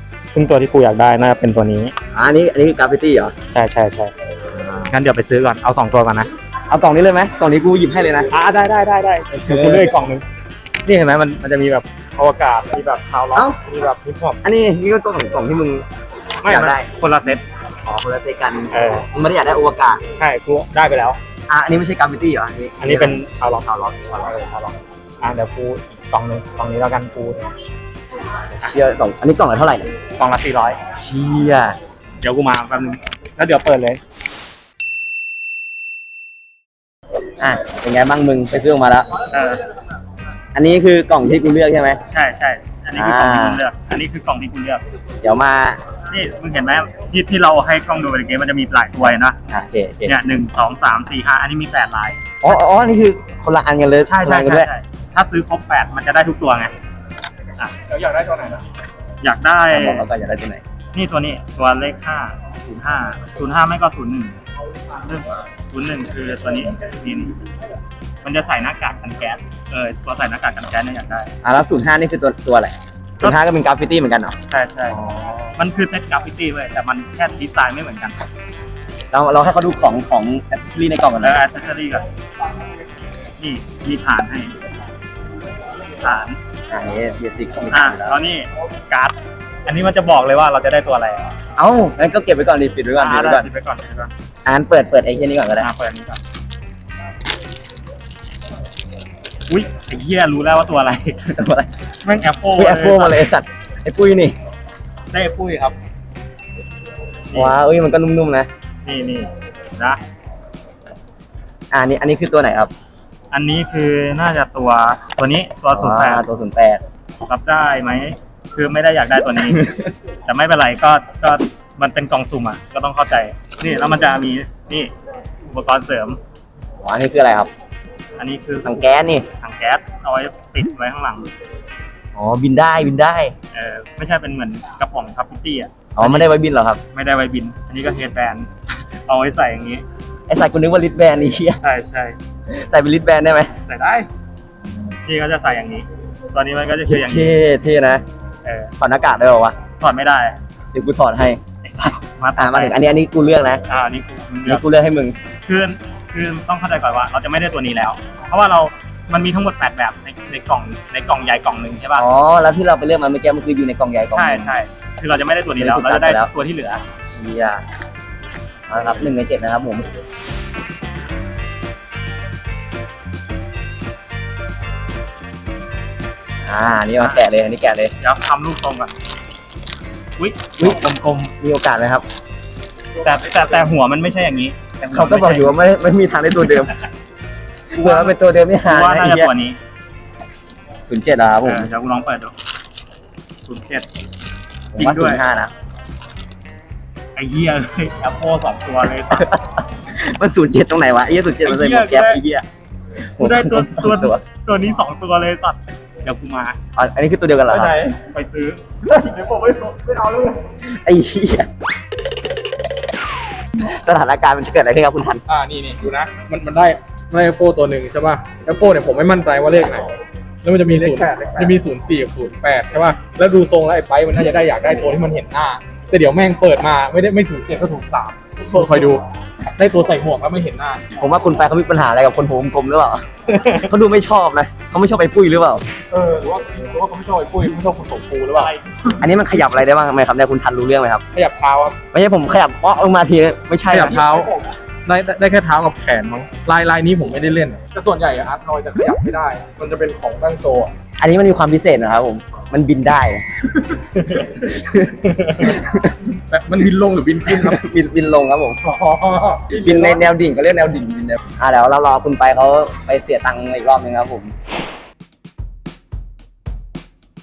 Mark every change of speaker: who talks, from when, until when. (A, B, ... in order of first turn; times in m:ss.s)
0:00.3-0:01.9 A
0:02.1-0:03.3 B
0:03.5-0:04.1 A
0:04.9-0:06.3 A
0:06.7-0:08.3 B
0:08.3-0:10.2 A
0:09.4-0:09.9 B
0:10.8-0:14.4 A
0:14.4-0:15.8 B
0:16.4-0:17.4 A
0:16.4-0:16.9 B
0:17.8-0:20.0 B
0:18.7-0:19.0 A
0:20.2-0:21.2 A
0:21.5-0:23.2 B
0:22.8-0:27.5 A
0:28.6-0:29.9 B
0:30.2-0:30.8 A
0:31.0-0:31.8 B
0:32.2-0:34.0 A
0:37.4-0:39.1 B
0:39.3-0:39.6 A
0:40.5-0:42.0 B
0:42.1-0:44.8 A
0:42.9-0:43.6 B
0:45.2-0:45.8 B
0:46.1-0:49.4 A
0:49.5-0:50.2 B
0:50.0-0:52.6 A
0:52.4-0:54.7 B
0:54.1-0:56.7 A
0:57.9-0:58.6 C
0:59.2-1:00.0 A
0:59.7-1:00.6 B
1:00.9-1:04.4 A
1:05.0-1:07.4 A
1:08.2-1:11.3 A
1:11.4-1:14.4 B
1:14.5-1:15.0 A
1:14.9-1:15.5 B
1:15.6-1:18.2 A
1:19.1-1:21.4 B
1:21.2-1:22.0 A
1:23.4-1:24.5 A
1:26.0-1:26.4 A
1:26.7-1:28.1 B
1:27.7-1:29.1 A
1:29.6-1:31.3 A
1:31.6-1:33.5 B
1:33.0-1:34.1 A
1:34.4-1:35.7 B
1:35.6-1:36.2 A
1:39.5-1:41.2 A
1:41.2-1:41.7 B
1:42.0-1:43.3 A
1:42.5-1:44.3 B
1:45.1-1:45.8 A
1:47.3-1:47.6 A
1:47.3-1:48.5 B
1:48.8-1:50.0 A
1:51.7-1:52.7 B
1:53.3-1:56.2 A
1:55.7-1:56.8 B
1:57.3-1:59.7 A
1:59.4-1:59.8 B
2:00.2-2:04.9 A
2:05.5-2:06.2 A
2:06.8-2:07.5 B
2:08.2-2:11.3 A
2:08.6-2:09.3 B
2:12.2-2:13.3 B
2:13.5-2:16.3 A
2:15.9-2:16.8 B
2:16.9-2:18.5 A
2:19.0-2:19.8 A
2:20.3-2:21.6 B
2:21.6-2:22.2 A
2:22.5-2:23.5 B
2:23.7-2:24.1 A
2:25.0-2:27.3 A
2:26.8-2:28.0 B
2:28.4-2:28.7 A
2:28.8-2:29.6 B
2:29.8-2:30.4 A
2:30.7-2:31.4 B
2:31.6-2:32.7 A
2:32.4-2:33.6 B
2:33.7-2:34.6 A
2:34.4-2:35.2 B
2:35.4-2:42.0 A
2:41.9-2:44.6 B
2:44.1-2:46.8 A
2:45.6-2:46.3 B
2:47.1-2:47.6 B
2:48.7-2:49.9 B
2:56.4-2:57.9 B
2:57.0-2:57.2 A
2:58.0-2:58.9 A
3:00.2-3:01.3 A
3:01.4-3:02.0 B
3:03.0-3:05.6 A
3:04.9-3:06.7 B
3:06.4-3:06.7 A
3:07.7-3:09.3 B
3:07.7-3:09.6 A
3:10.9-3:11.7 B
3:11.4-3:12.3 A
3:13.4-3:13.9 A
3:14.7-3:15.5 B
3:14.8-3:15.2 A
3:17.2-3:19.3 A
3:19.1-3:22.4 B
3:21.4-3:22.2 A
3:23.0-3:24.2 B
3:23.2-3:26.6 A
3:26.8-3:27.8 B
3:27.5-3:28.6 A
3:29.0-3:30.4 C
3:30.6-3:31.5 B
3:33.6-3:35.2 B
3:35.3-3:39.9 C
3:40.4-3:49.0 C
3:40.7-3:41.5 A
3:48.5-3:48.9 A
3:49.6-3:50.8 C
3:51.0-3:53.0 B
3:53.3-3:53.7 A
3:53.6-3:55.6 B
3:55.9-3:58.5 C
3:58.3-3:58.9 A
3:59.0-4:01.0 B
4:01.1-4:01.8 C
4:01.9-4:04.2 B
4:03.7-4:04.3 C
4:04.8-4:10.7 C
4:11.0-4:13.2 B
4:14.0-4:14.4 A
4:14.1-4:16.0 B
4:15.2-4:15.5 A
4:16.3-4:17.6 C
4:17.3-4:18.6 B
4:18.6-4:20.0 C
4:19.5-4:24.3 B